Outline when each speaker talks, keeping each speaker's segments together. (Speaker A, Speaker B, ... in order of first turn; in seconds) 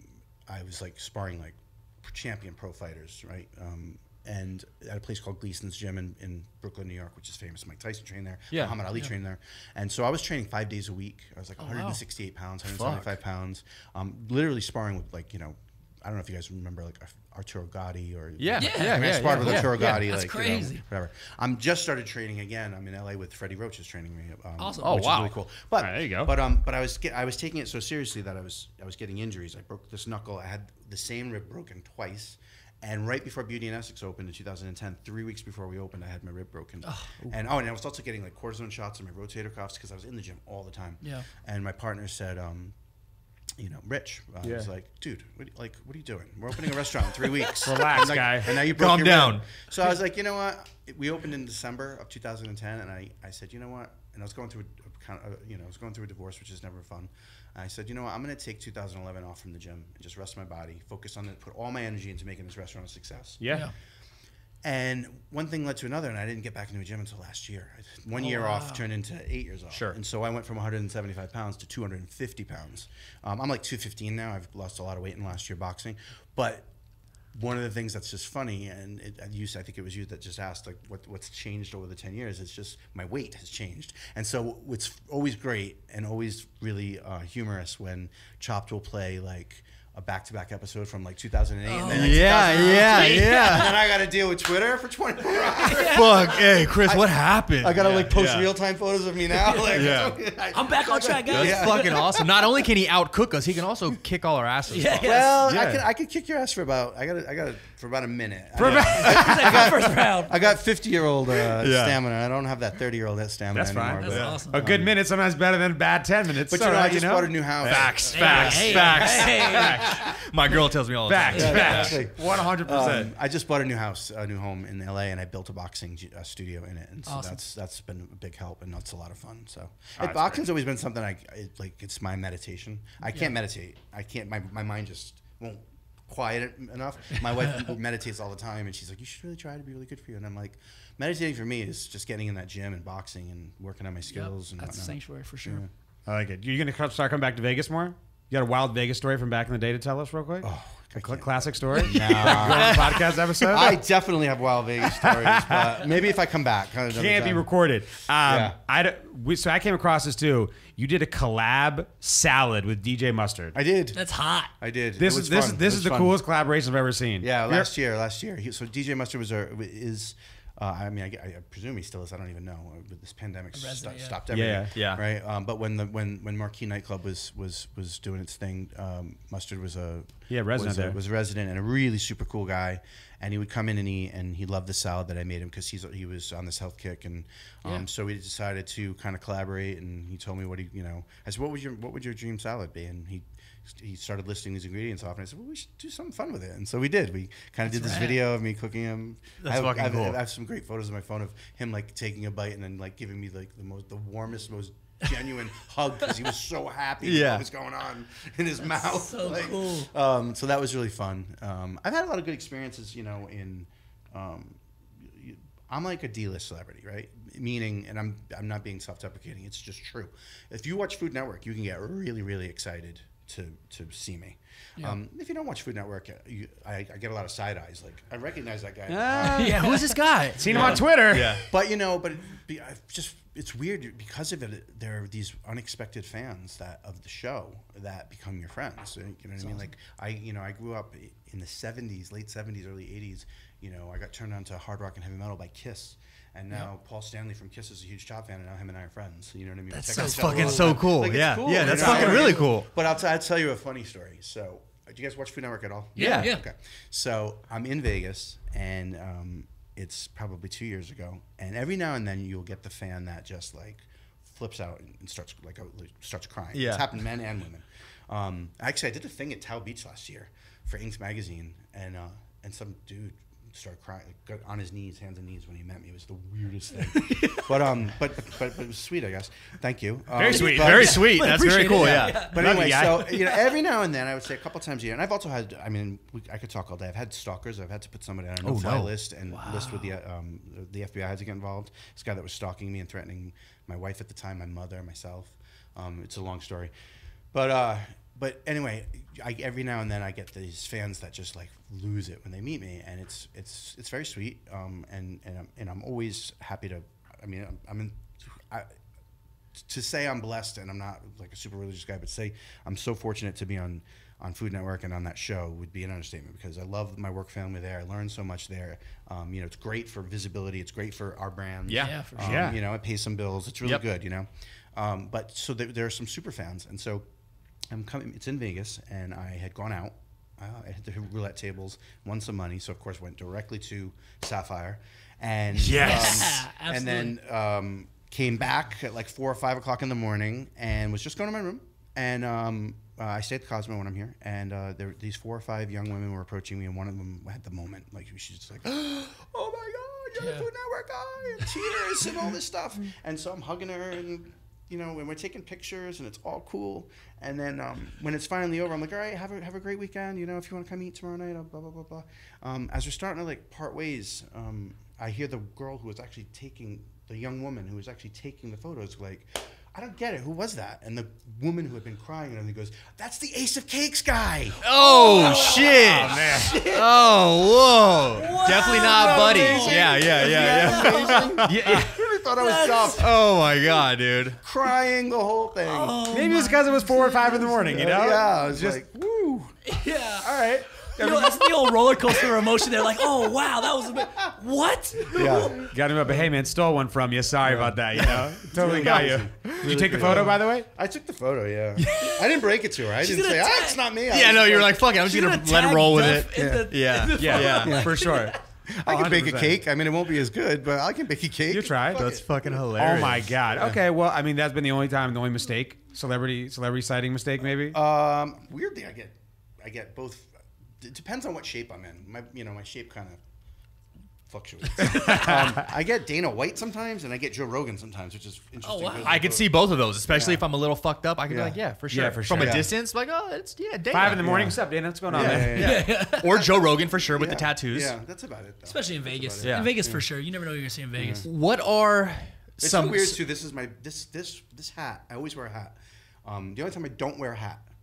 Speaker A: 0.5-42.7, 43.6-63.4, 64.6-76.7, 77.3-102.7, 105.0-114.9, 116.5-120.0, 121.3-145.7, 150.4-157.4, 158.2-158.6, 163.5-164.0, 164.6-166.2, 167.2-229.6, 230.5-296.7, 297.3-308.7, 309.6-327.0, 327.7-375.8, 378.2-383.2, 384.4-386.0, 387.7-389.6, 395.1-395.7, 397.4-404.9, 406.3-413.8, 417.7-423.2, 424.3-430.4, 431.3-431.6, 432.3-432.7, 434.2-440.0, 440.9-441.3, 442.6-447.7
Speaker B: 8.5-8.8, 12.6-13.2, 18.4-20.1, 24.8-25.3, 48.5-49.5, 69.7-70.0, 91.9-93.8, 95.6-98.5, 99.7-100.2, 101.3-105.2, 111.5-112.0, 114.0-114.4, 117.6-122.0, 151.8-153.4, 174.7-175.0, 199.4-200.2, 207.0-207.4, 229.2-231.5, 249.9-252.7, 255.9-256.3, 266.5-266.9, 280.3-282.4, 288.4-288.9, 321.7-322.0, 335.5-336.4, 374.6-381.9, 382.9-384.4, 399.5-399.8, 401.8-402.1, 404.1-407.9, 411.9-413.4, 429.0-434.3, 435.1-437.9, 439.4-439.8, 441.2-443.2
Speaker C: 11.6-12.0, 18.6-20.8, 24.6-25.0, 36.8-37.1, 68.2-68.8, 91.7-93.8, 95.6-96.4, 99.4-99.8, 100.5-102.0, 104.7-105.4, 108.9-110.4, 114.0-114.6, 118.1-119.9, 121.3-121.8, 127.1-127.4, 137.2-137.7, 144.1-145.6, 163.9-164.5, 173.5-174.2, 197.7-198.2, 208.6-209.9, 229.2-230.7, 249.7-250.8, 256.0-256.4, 276.9-277.5, 280.5-282.4, 289.3-289.9, 321.8-322.5, 335.7-337.1, 350.2-350.5, 374.7-376.8, 378.2-381.3, 382.3-383.1, 385.6-387.7, 389.6-395.7, 401.9-402.4, 403.0-403.8, 404.9-408.4, 424.8-425.5, 428.6-429.2, 435.5-436.4, 438.6-441.3
Speaker D: 25.8-26.3, 44.4-44.7, 47.6-48.6, 63.4-63.7, 97.8-98.1, 105.5-105.8, 108.6-109.9, 113.5-120.3, 121.0-123.1, 130.0-130.4, 146.1-153.8, 154.9-155.9, 156.9-163.5, 165.0-167.7, 174.3-174.7, 180.3-181.0, 228.9-229.5, 230.4-231.4, 251.6-252.4, 280.1-281.0, 282.3-283.4, 322.2-322.6, 375.7-376.6, 381.4-381.9, 386.1-388.8, 390.2-391.8, 395.7-400.7, 407.2-409.6, 411.5-412.1, 412.7-417.8, 424.8-425.4, 431.9-432.7, 433.9-435.6